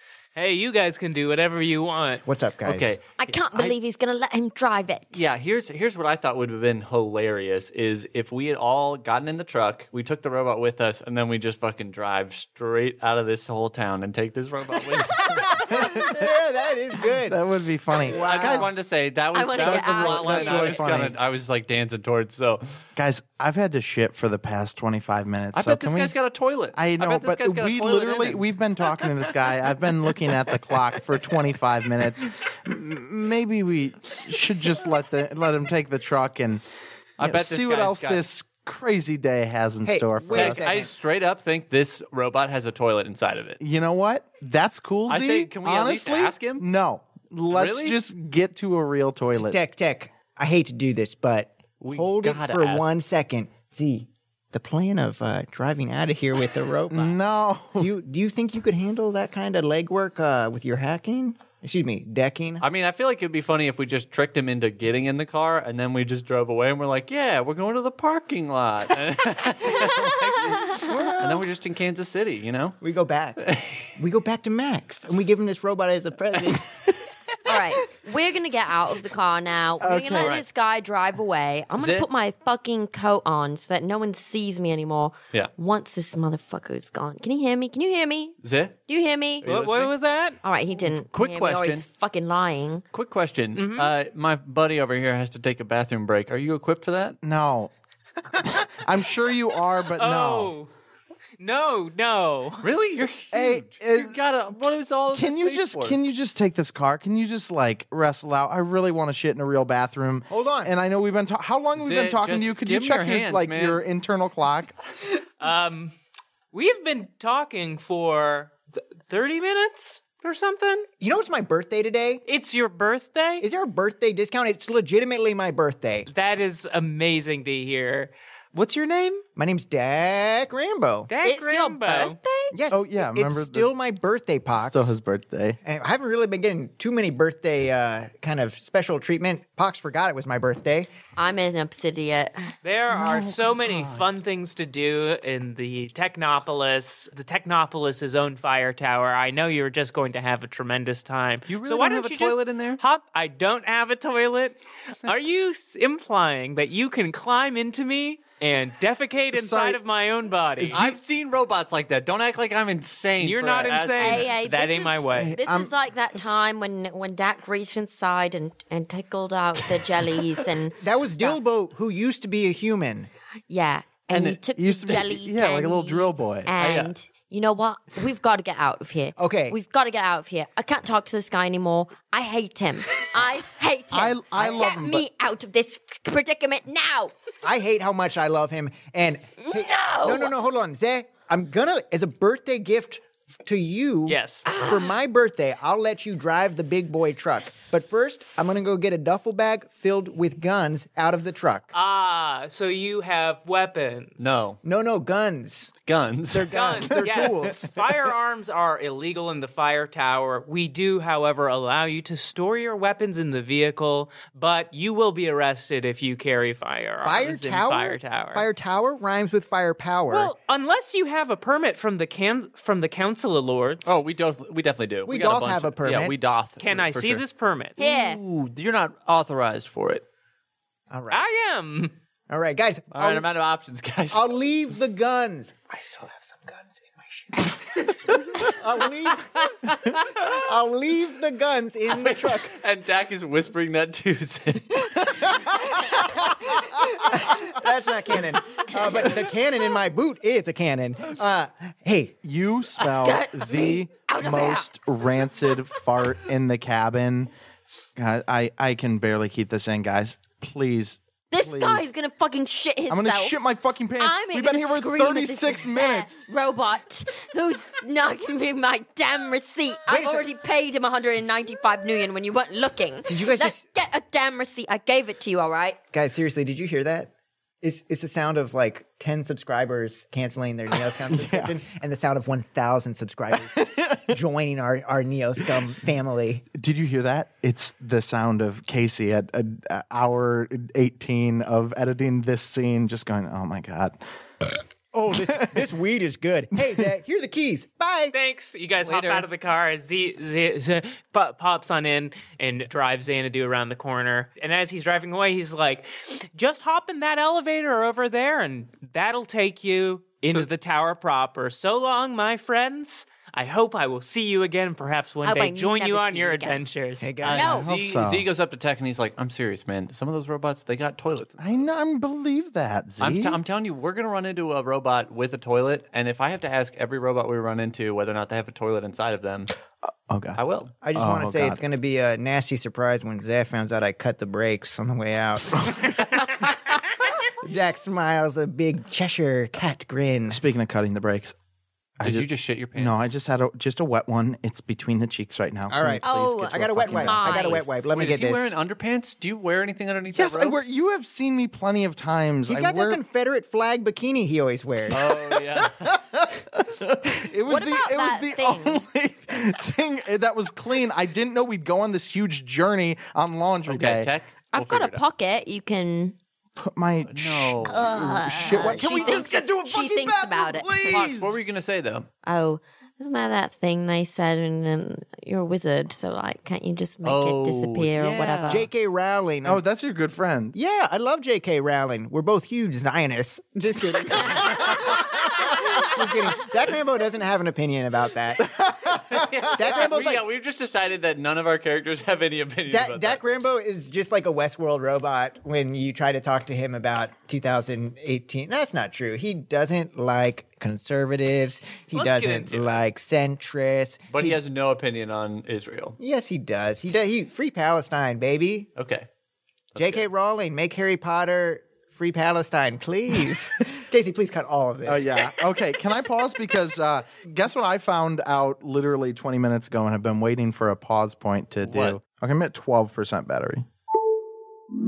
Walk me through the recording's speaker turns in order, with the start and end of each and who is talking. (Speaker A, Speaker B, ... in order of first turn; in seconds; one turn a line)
Speaker A: 0.4-2.2
Speaker B: 2.2-3.0
Speaker C: 2.7-3.8
Speaker D: 3.2-5.2
Speaker C: 5.1-15.6
Speaker D: 15.3-16.1
Speaker B: 15.6-17.4
Speaker E: 15.7-16.2
Speaker E: 17.3-18.7
Speaker B: 18.1-18.7
Speaker C: 18.1-22.8
Speaker D: 19.3-21.0
Speaker E: 19.6-21.2
Speaker E: 23.0-26.2
Speaker C: 25.5-28.4
Speaker E: 26.7-36.6
Speaker C: 37.2-38.2
Speaker E: 37.2-40.9
Speaker B: 39.9-40.9
Speaker C: 40.3-43.6
Speaker E: 43.6-49.6
Speaker C: 45.1-46.6
Speaker C: 47.5-48.0
Speaker B: 49.4-57.2
Speaker C: 51.8-52.9
Speaker E: 56.9-57.9
Speaker B: 57.8-62.6
Speaker C: 62.6-72.8
Speaker B: 72.8-73.4
Speaker C: 73.4-73.9
Speaker B: 74.0-76.9
Speaker D: 77.5-88.4
Speaker E: 79.8-80.4
Speaker C: 81.8-82.1
Speaker C: 88.4-88.8
Speaker D: 88.9-89.5
Speaker C: 89.4-90.0
Speaker A: 89.4-90.4
Speaker D: 90.4-92.8
Speaker C: 90.8-91.9
Speaker C: 92.9-97.2
Speaker A: 93.5-93.9
Speaker E: 97.2-97.7
Speaker E: 98.3-100.5
Speaker A: 100.0-100.7
Speaker A: 101.4-102.7
Speaker C: 102.6-106.0
Speaker E: 103.3-104.2
Speaker E: 105.1-114.8
Speaker B: 110.3-110.7
Speaker C: 111.8-113.8
Speaker A: 115.4-115.9
Speaker A: 116.5-120.9
Speaker B: 121.0-122.2
Speaker A: 122.3-123.5
Speaker B: 123.4-126.1
Speaker A: 126.1-129.2
Speaker B: 129.4-131.1
Speaker A: 131.1-132.2
Speaker D: 131.2-132.5
Speaker B: 132.5-135.0
Speaker E: 132.7-133.7
Speaker E: 134.6-135.6
Speaker B: 135.6-140.9
Speaker D: 141.2-142.5
Speaker A: 142.6-160.8
Speaker E: 142.9-144.2
Speaker C: 151.5-152.8
Speaker E: 159.4-159.8
Speaker E: 160.6-161.0
Speaker C: 160.7-164.3
Speaker A: 163.2-165.4
Speaker D: 163.9-171.4
Speaker E: 165.1-165.7
Speaker B: 170.8-173.1
Speaker D: 173.5-187.1
Speaker C: 174.1-175.1
Speaker E: 174.6-176.5
Speaker C: 176.6-176.9
Speaker B: 179.2-179.6
Speaker E: 183.9-185.1
Speaker B: 187.4-201.7
Speaker D: 189.5-190.3
Speaker A: 194.1-194.5
Speaker D: 194.5-194.9
Speaker A: 201.7-204.5
Speaker C: 204.2-204.6
Speaker B: 204.6-205.7
Speaker C: 205.9-206.8
Speaker B: 206.3-207.8
Speaker A: 206.5-218.5
Speaker B: 217.0-220.3
Speaker A: 220.1-224.0
Speaker C: 223.8-227.2
Speaker B: 225.1-226.2
Speaker A: 226.6-227.8
Speaker D: 227.8-228.2
Speaker C: 227.8-230.1
Speaker B: 230.9-231.2
Speaker A: 231.1-231.9
Speaker B: 232.3-233.2
Speaker C: 232.9-234.3
Speaker B: 234.1-242.6
Speaker C: 241.9-245.4
Speaker B: 245.3-252.2
Speaker E: 252.2-257.3
Speaker D: 252.9-254.7
Speaker E: 258.0-261.9
Speaker D: 261.3-263.4
Speaker E: 262.9-266.3
Speaker D: 264.0-275.8
Speaker B: 269.9-270.3
Speaker B: 273.1-273.6
Speaker B: 275.9-277.1
Speaker B: 277.6-286.4
Speaker E: 280.9-281.6
Speaker E: 283.3-284.2
Speaker E: 286.5-294.0
Speaker B: 294.9-298.1
Speaker E: 295.1-295.7
Speaker A: 298.1-317.2
Speaker C: 298.8-299.3
Speaker D: 315.2-316.6
Speaker B: 317.0-317.7
Speaker C: 317.2-321.6
Speaker D: 317.3-317.7
Speaker E: 317.6-318.3
Speaker E: 321.4-323.4
Speaker C: 323.0-329.5
Speaker E: 330.1-330.4
Speaker C: 330.4-330.8
Speaker B: 330.8-340.4
Speaker E: 330.9-331.6
Speaker E: 340.3-341.4
Speaker E: 342.0-347.6
Speaker C: 342.0-343.1
Speaker B: 345.7-348.5
Speaker D: 346.0-347.7
Speaker C: 347.9-350.6
Speaker E: 350.1-353.0
Speaker B: 352.5-355.2
Speaker C: 354.9-355.9
Speaker E: 354.9-364.1
Speaker D: 357.4-358.8
Speaker C: 363.7-365.0
Speaker D: 364.5-366.2
Speaker E: 366.6-371.4
Speaker C: 367.1-367.9
Speaker D: 367.6-371.1
Speaker C: 370.9-372.1
Speaker D: 372.2-378.6
Speaker C: 377.0-378.7
Speaker B: 378.5-379.6
Speaker E: 379.4-380.6
Speaker B: 380.5-390.3
Speaker E: 388.6-389.4
Speaker C: 389.1-393.2
Speaker B: 392.7-404.4
Speaker A: 401.9-402.8
Speaker C: 404.1-406.0
Speaker B: 406.0-408.7
Speaker C: 408.8-409.1
Speaker C: 409.7-410.1
Speaker B: 409.8-415.3
Speaker E: 414.9-423.7
Speaker C: 421.6-422.0